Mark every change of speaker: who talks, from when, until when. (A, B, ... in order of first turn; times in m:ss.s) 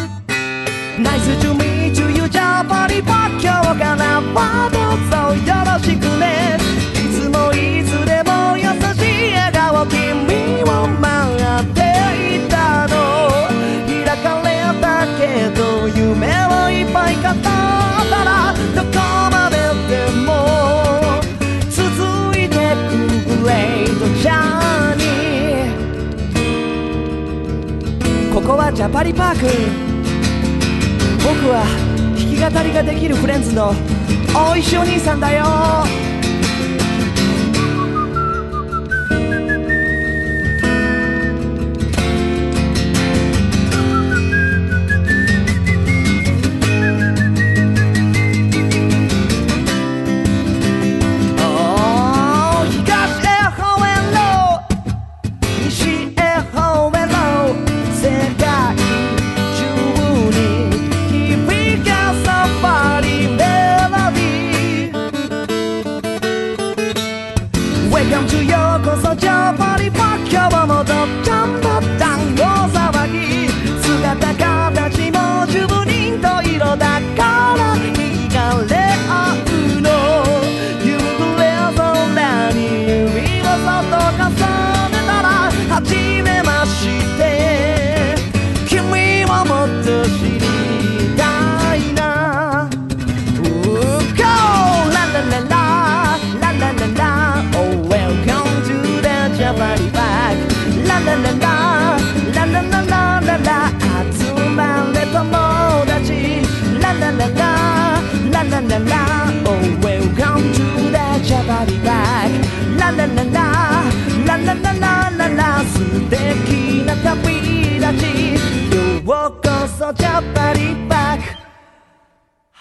0:01.0-0:25.8 A
0:28.3-0:30.0 A
0:31.2-0:36.0 A
0:51.4-0:54.6 A
0:55.5-1:05.0 A
1:07.8-1:32.8 A
1:33.3-2:01.4 A